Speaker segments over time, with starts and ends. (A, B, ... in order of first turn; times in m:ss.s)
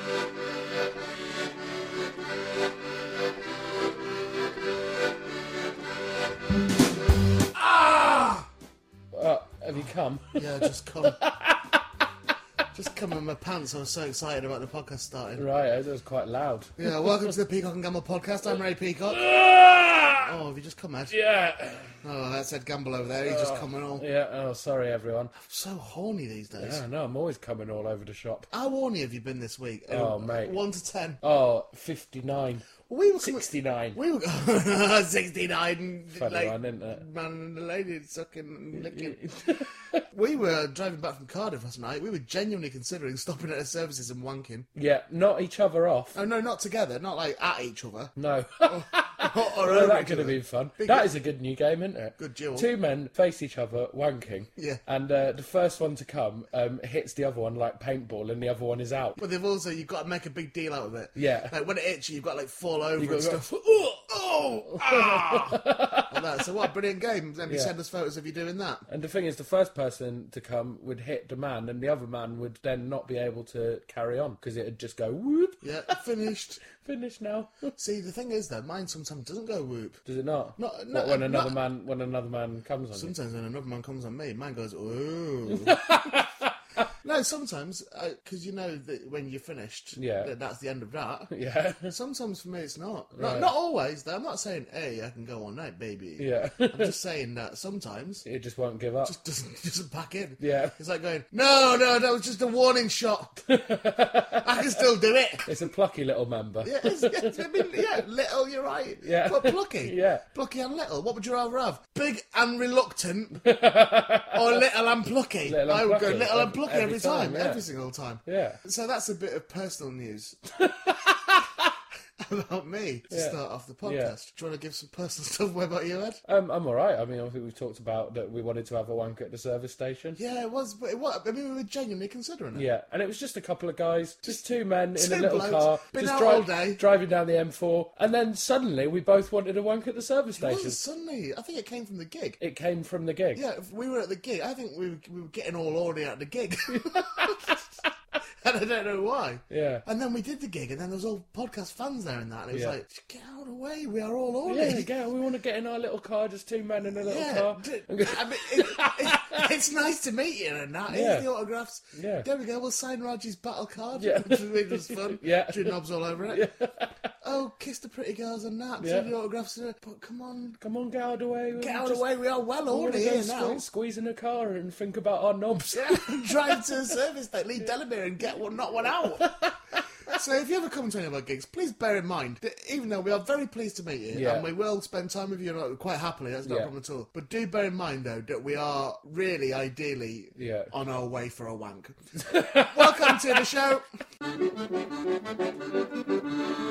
0:07.5-0:08.4 A
0:09.1-0:11.7 A
0:10.3-0:11.2 B
0:12.7-0:15.4 B
0:15.4-0:17.3 A
0:16.8-0:19.2 B
0:19.1-0:20.3 A
0:20.2-0:21.2 B
0:21.1-0:22.0 A
0:22.0-0:24.1 B
0:23.2-0:25.3 A
0:25.4-0:26.8 B
0:26.6-0:28.5 A
0:28.5-0:31.2 B
0:29.9-0:30.6 A
0:31.2-0:34.0 A
0:32.9-0:44.7 B
0:36.1-0:37.0 A
0:38.7-0:40.0 A
0:44.7-0:46.2 A
0:46.1-0:51.1 B
0:48.2-0:59.2 A
0:52.2-0:52.7 B
0:54.6-0:54.8 B
0:59.2-1:03.5 B
1:01.1-1:01.5 A
1:03.0-1:04.1 A
1:04.1-1:08.9 B
1:04.7-1:06.2 A
1:07.5-1:07.7 A
1:08.9-1:16.0 A
1:15.6-1:16.6 B
1:16.6-1:17.8 A
1:17.8-1:20.0 B
1:20.0-1:23.1 A
1:20.6-1:21.6 B
1:22.9-1:26.2 B
1:25.5-1:26.9 A
1:27.0-1:31.3 B
1:30.0-1:30.3 A
1:31.3-1:31.9 A
1:31.9-1:38.2 B
1:33.1-1:33.5 A
1:36.2-1:37.0 A
1:38.2-1:39.2 A
1:39.0-1:45.6 B
1:40.4-1:40.8 A
1:43.5-1:44.8 A
1:45.4-1:48.0 A
1:46.6-1:53.4 B
1:49.0-1:50.2 A
1:53.4-1:54.6 A
1:54.3-2:00.9 B
1:55.4-1:57.6 A
1:58.2-1:58.6 A
2:00.7-2:01.0 A
2:02.2-2:06.2 B
2:03.1-2:04.1 A
2:06.2-2:10.2 A
2:10.2-2:12.7 B
2:12.5-2:20.8 A
2:15.0-2:16.8 B
2:20.4-2:22.4 B
2:22.4-2:23.4 A
2:23.3-2:27.6 B
2:26.7-2:27.6 A
2:28.4-2:34.9 B
2:29.5-2:29.8 A
2:34.4-2:39.5 A
2:36.8-2:46.5 B
2:40.9-2:41.3 A
2:41.9-2:42.3 A
2:44.0-2:45.8 A
2:46.3-2:47.1 A
2:47.2-2:50.6 B
2:48.8-2:49.1 A
2:50.6-2:52.1 A
2:51.6-2:53.6 B
2:52.7-2:56.9 A
2:55.7-2:59.4 B
2:59.1-2:59.8 A
3:00.1-3:13.8 B
3:04.1-3:04.5 A
3:06.4-3:06.7 A
3:10.3-3:10.7 A
3:12.2-3:13.4 A